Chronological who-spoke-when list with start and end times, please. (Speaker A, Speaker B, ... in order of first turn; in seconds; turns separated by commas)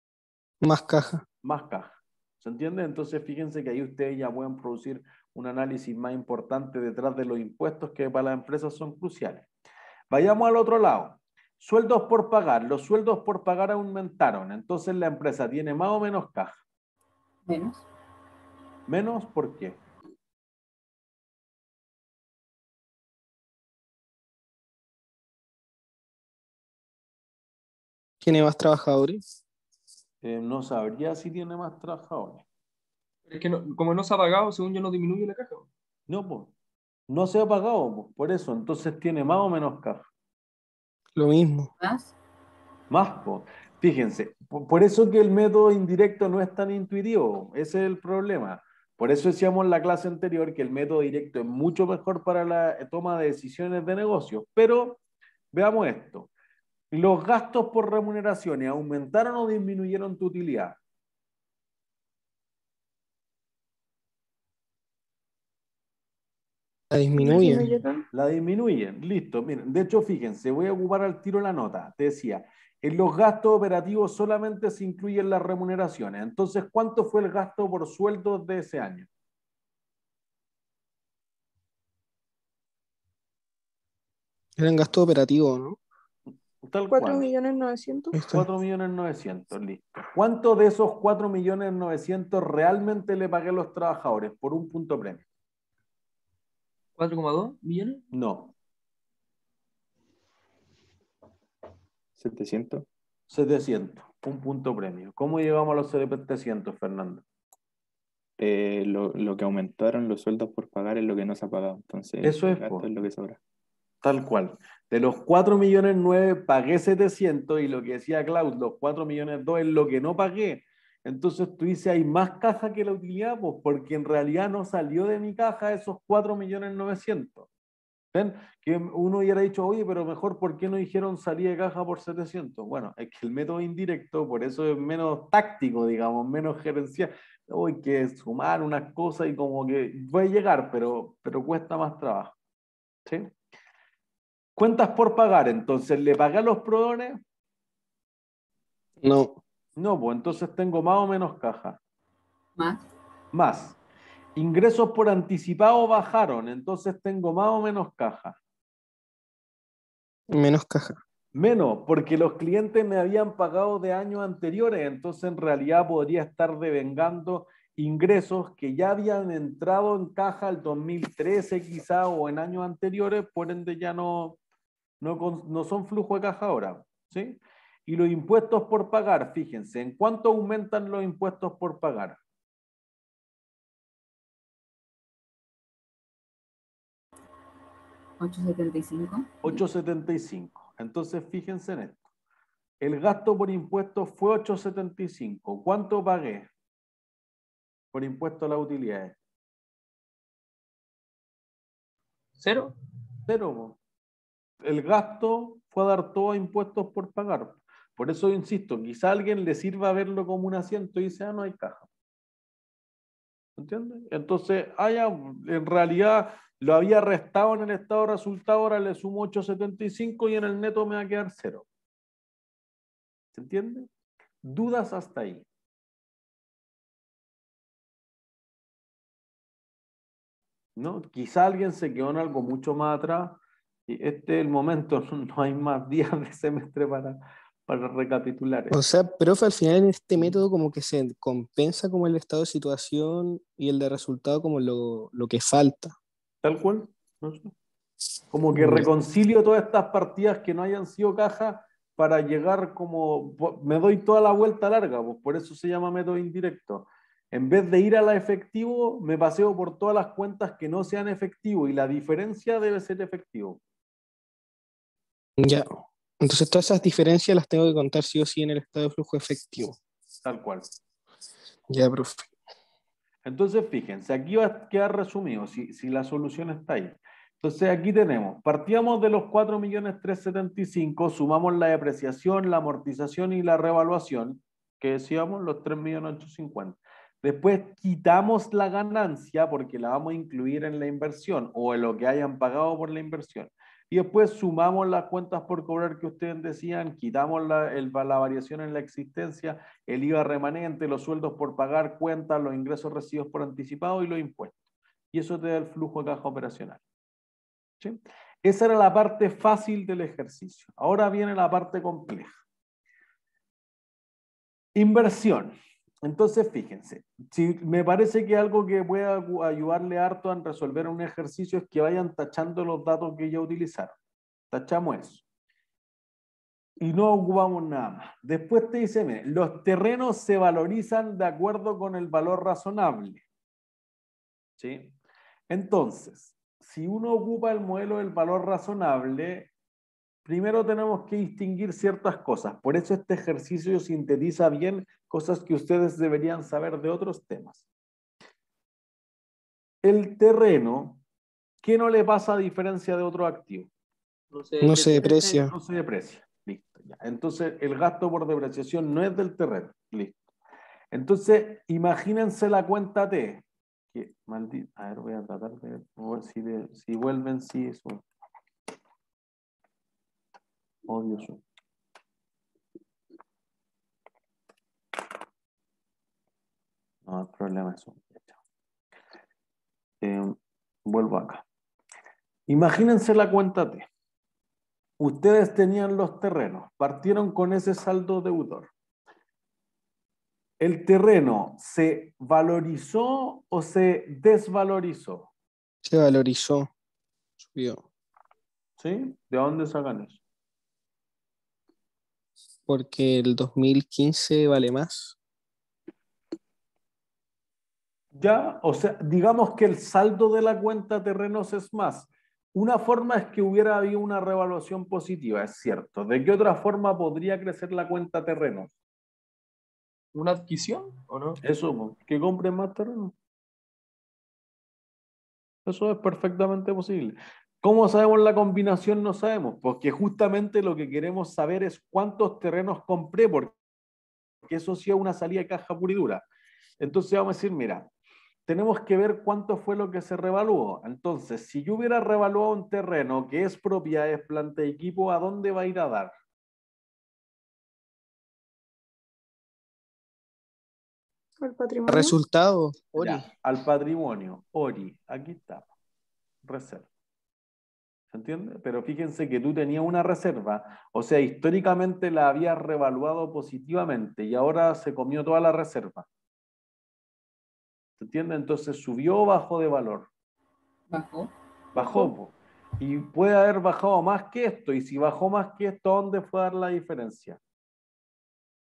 Speaker A: 0.6-1.2, Speaker B: 1.4-9.5, Speaker B: 10.1-16.6, Speaker C: 17.4-17.8, Speaker B: 18.9-19.8, Speaker A: 28.2-29.2, Speaker B: 30.2-32.4, Speaker D: 33.3-35.7, Speaker B: 36.1-36.5, Speaker B: 37.1-40.0, Speaker A: 41.1-41.7, Speaker C: 41.8-42.1, Speaker B: 42.9-55.0, Speaker B: 55.5-56.3, Speaker B: 56.9-60.8, Speaker A: 66.9-67.7, Speaker E: 67.2-68.0, Speaker B: 68.1-79.1, Speaker A: 84.6-85.8, Speaker B: 86.6-87.3, Speaker E: 86.9-88.1, Speaker A: 88.1-88.5, Speaker B: 88.3-95.2, Speaker D: 97.0-98.0, Speaker B: 98.1-98.5, Speaker F: 102.2-102.9, Speaker B: 103.3-107.2, Speaker F: 108.4-113.4, Speaker B: 112.2-112.9, Speaker B: 114.0-127.5, Speaker B: 128.1-142.3, Speaker B: 144.6-147.2, Speaker A: 149.0-149.4, Speaker B: 149.8-151.8, Speaker C: 152.6-152.8, Speaker B: 153.3-153.8, Speaker B: 154.3-158.4, Speaker A: 160.3-161.0, Speaker B: 161.3-174.4, Speaker B: 175.0-182.2, Speaker C: 188.2-189.6, Speaker B: 189.4-192.0, Speaker B: 192.8-196.5, Speaker B: 197.9-199.1, Speaker D: 202.4-202.7, Speaker B: 203.3-203.8, Speaker B: 204.6-211.9, Speaker B: 213.6-221.7, Speaker B: 223.3-223.9, Speaker B: 224.4-225.4, Speaker B: 230.8-238.8, Speaker A: 238.7-245.9, Speaker B: 246.4-247.5, Speaker B: 248.3-263.6, Speaker A: 248.5-248.9, Speaker A: 265.4-269.8, Speaker B: 270.2-270.6, Speaker A: 271.7-272.3, Speaker B: 273.2-304.5, Speaker B: 305.1-306.8, Speaker B: 307.8-312.4, Speaker B: 314.8-323.9, Speaker B: 324.5-325.2, Speaker B: 326.8-333.2, Speaker B: 334.6-334.9, Speaker B: 335.5-339.5, Speaker B: 340.2-347.6, Speaker B: 349.8-351.0, Speaker B: 351.6-353.7, Speaker D: 354.3-355.4, Speaker A: 354.6-355.5, Speaker B: 355.0-360.1, Speaker B: 360.9-368.0, Speaker B: 370.9-371.4, Speaker B: 377.1-378.4, Speaker B: 380.0-380.3, Speaker B: 380.9-381.4, Speaker B: 382.5-383.9, Speaker B: 385.0-388.7, Speaker B: 390.6-395.3, Speaker A: 395.8-396.7, Speaker A: 397.4-397.8, Speaker B: 398.8-400.2, Speaker A: 402.7-405.1, Speaker B: 408.1-418.7, Speaker D: 420.1-421.4, Speaker B: 421.4-423.1, Speaker B: 425.6-433.6, Speaker B: 434.4-436.2, Speaker B: 436.8-437.9, Speaker B: 438.5-446.1, Speaker E: 451.4-452.1, Speaker A: 451.9-453.3, Speaker B: 453.0-455.7, Speaker B: 456.4-456.9, Speaker B: 458.1-466.1, Speaker B: 468.0-470.1, Speaker C: 470.9-471.3, Speaker B: 471.7-477.4